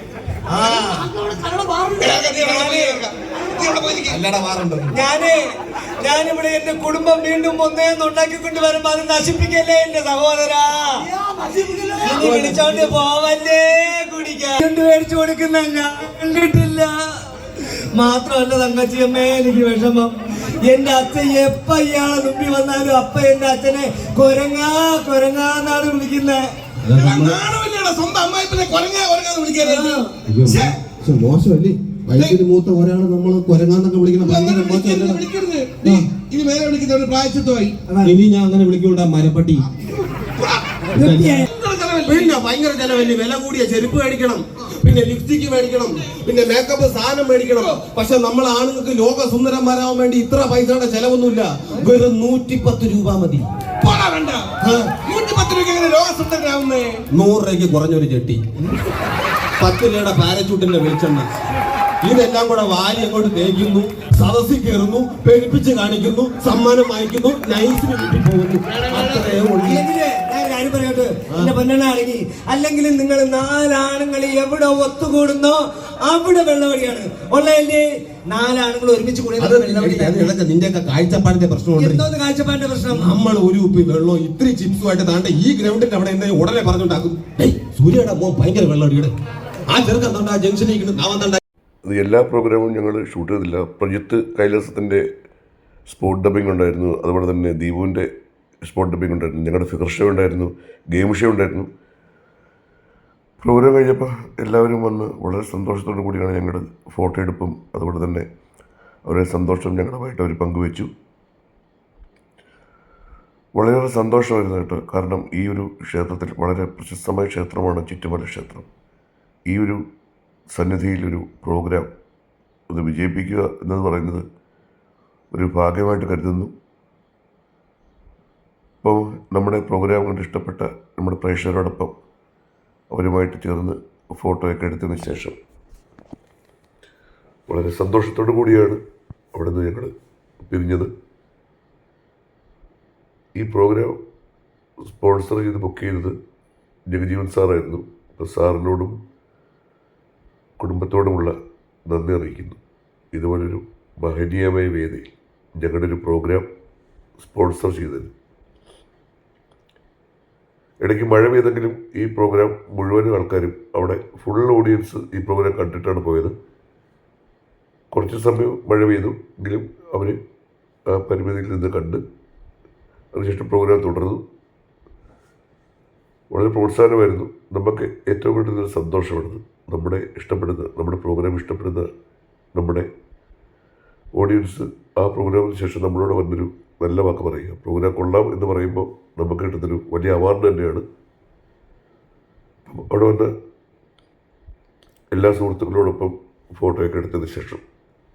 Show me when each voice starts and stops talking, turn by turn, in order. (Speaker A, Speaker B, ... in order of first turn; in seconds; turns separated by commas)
Speaker A: 0.5-1.1, Speaker B: 1.2-3.0, Speaker C: 2.0-4.2, Speaker A: 4.0-4.9, Speaker B: 4.9-5.4, Speaker B: 6.0-11.0, Speaker B: 12.0-16.9, Speaker A: 12.1-13.0, Speaker B: 17.9-20.1, Speaker B: 20.7-26.4, Speaker A: 26.8-27.4, Speaker C: 26.9-30.7, Speaker B: 29.6-30.1, Speaker A: 30.3-35.2, Speaker C: 34.2-37.9, Speaker A: 35.8-36.1, Speaker A: 38.0-39.7, Speaker A: 40.9-41.5, Speaker B: 41.0-41.4, Speaker C: 41.5-42.4, Speaker A: 42.0-53.5, Speaker C: 53.8-57.0, Speaker A: 54.6-55.0, Speaker A: 57.1-58.5, Speaker A: 59.6-61.3, Speaker A: 62.0-69.9, Speaker B: 69.7-80.3, Speaker A: 79.4-82.1, Speaker B: 81.8-83.1, Speaker A: 82.9-89.1, Speaker A: 89.7-91.4, Speaker D: 91.8-95.0, Speaker D: 95.9-98.1, Speaker D: 98.6-101.7, Speaker D: 103.4-108.3, Speaker D: 109.1-110.9, Speaker D: 113.5-118.7, Speaker D: 119.5-119.8, Speaker D: 120.5-121.9, Speaker D: 122.7-124.3, Speaker D: 125.3-126.5, Speaker D: 128.8-131.9, Speaker D: 132.9-135.3, Speaker D: 137.5-138.8, Speaker D: 139.3-139.9, Speaker D: 140.4-140.9, Speaker D: 143.4-144.0, Speaker D: 144.9-146.2, Speaker D: 146.9-148.9, Speaker D: 150.6-151.4, Speaker D: 151.9-152.6, Speaker D: 153.1-156.5, Speaker D: 157.2-158.1, Speaker D: 160.8-166.3, Speaker D: 167.9-170.2, Speaker D: 170.9-172.0, Speaker D: 173.1-174.2, Speaker D: 176.3-181.9, Speaker D: 182.6-182.9, Speaker D: 184.2-190.8, Speaker D: 192.7-193.3, Speaker D: 195.1-197.6